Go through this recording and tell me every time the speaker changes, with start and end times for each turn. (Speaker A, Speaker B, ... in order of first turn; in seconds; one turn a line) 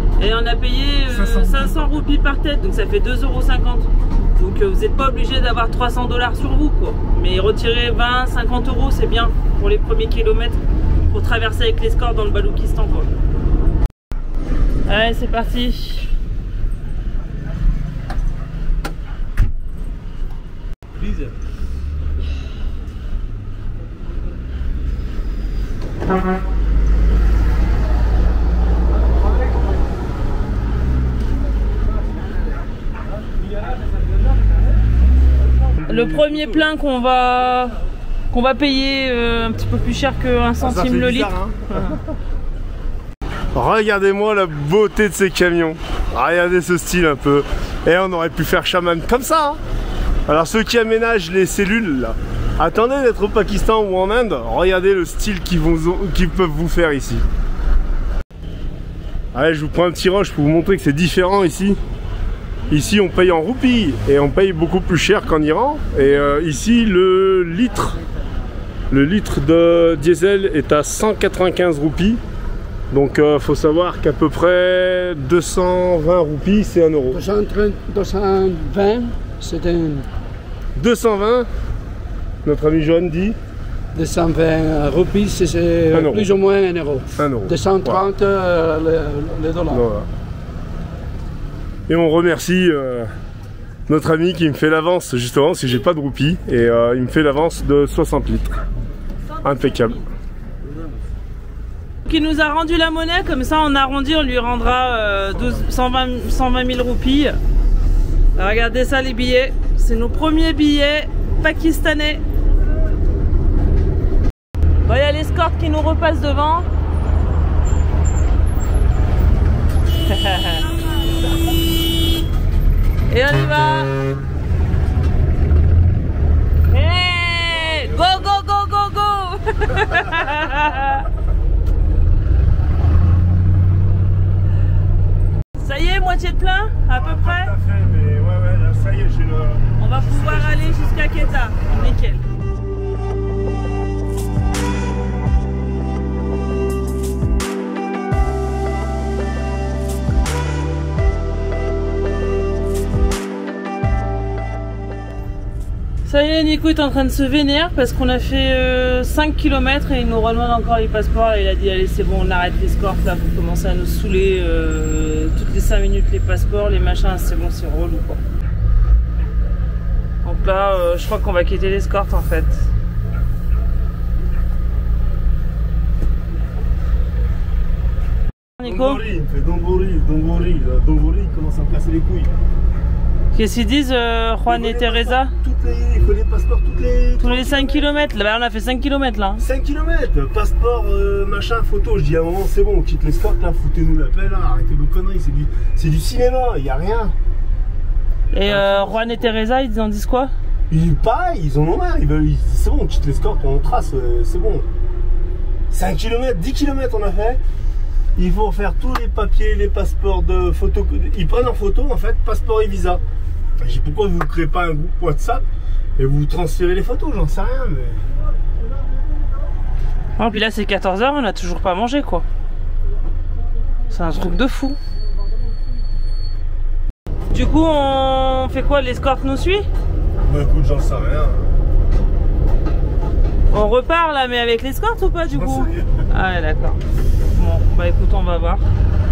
Speaker A: 0.2-13.1
Speaker B: 1.1-1.8
Speaker A: 14.9-16.1
Speaker B: 35.8-36.6
Speaker A: 35.9-37.8
Speaker A: 38.3-42.0
Speaker B: 40.6-42.0
Speaker B: 43.5-49.6
Speaker B: 50.3-57.2
Speaker B: 59.3-61.8
Speaker B: 62.7-68.0
Speaker B: 68.9-72.2
Speaker B: 72.9-77.2
Speaker C: 77.1-80.1
Speaker B: 80.8-81.5
Speaker B: 82.4-83.4
Speaker C: 83.9-89.8
Speaker B: 85.9-86.3
Speaker B: 87.2-88.1
Speaker B: 89.7-90.1
Speaker B: 91.9-93.1
Speaker B: 93.9-98.6
Speaker A: 99.3-100.1
Speaker B: 99.4-100.0
Speaker A: 102.0-107.4
Speaker A: 108.4-112.2
Speaker A: 114.8-116.7
Speaker A: 120.1-120.7
Speaker A: 123.1-124.0
Speaker A: 126.7-131.1
Speaker B: 127.8-128.2
Speaker A: 135.6-137.5
Speaker B: 136.8-142.0
Speaker A: 139.8-142.2
Speaker A: 156.0-168.2
Speaker A: 170.2-172.7
Speaker A: 178.6-179.0
Speaker B: 178.6-182.3
Speaker A: 183.3-185.3
Speaker B: 184.4-187.9
Speaker A: 187.2-189.4
Speaker B: 189.4-197.2
Speaker A: 198.3-200.3
Speaker B: 198.4-199.4
Speaker B: 200.7-204.7
Speaker B: 205.7-207.4
Speaker B: 208.2-213.0
Speaker B: 213.6-215.4
Speaker B: 216.0-218.0
Speaker A: 220.2-222.2
Speaker A: 223.9-224.8
Speaker A: 227.3-229.7
Speaker B: 230.2-231.5
Speaker A: 233.5-236.8
Speaker B: 235.3-236.0
Speaker A: 237.3-238.7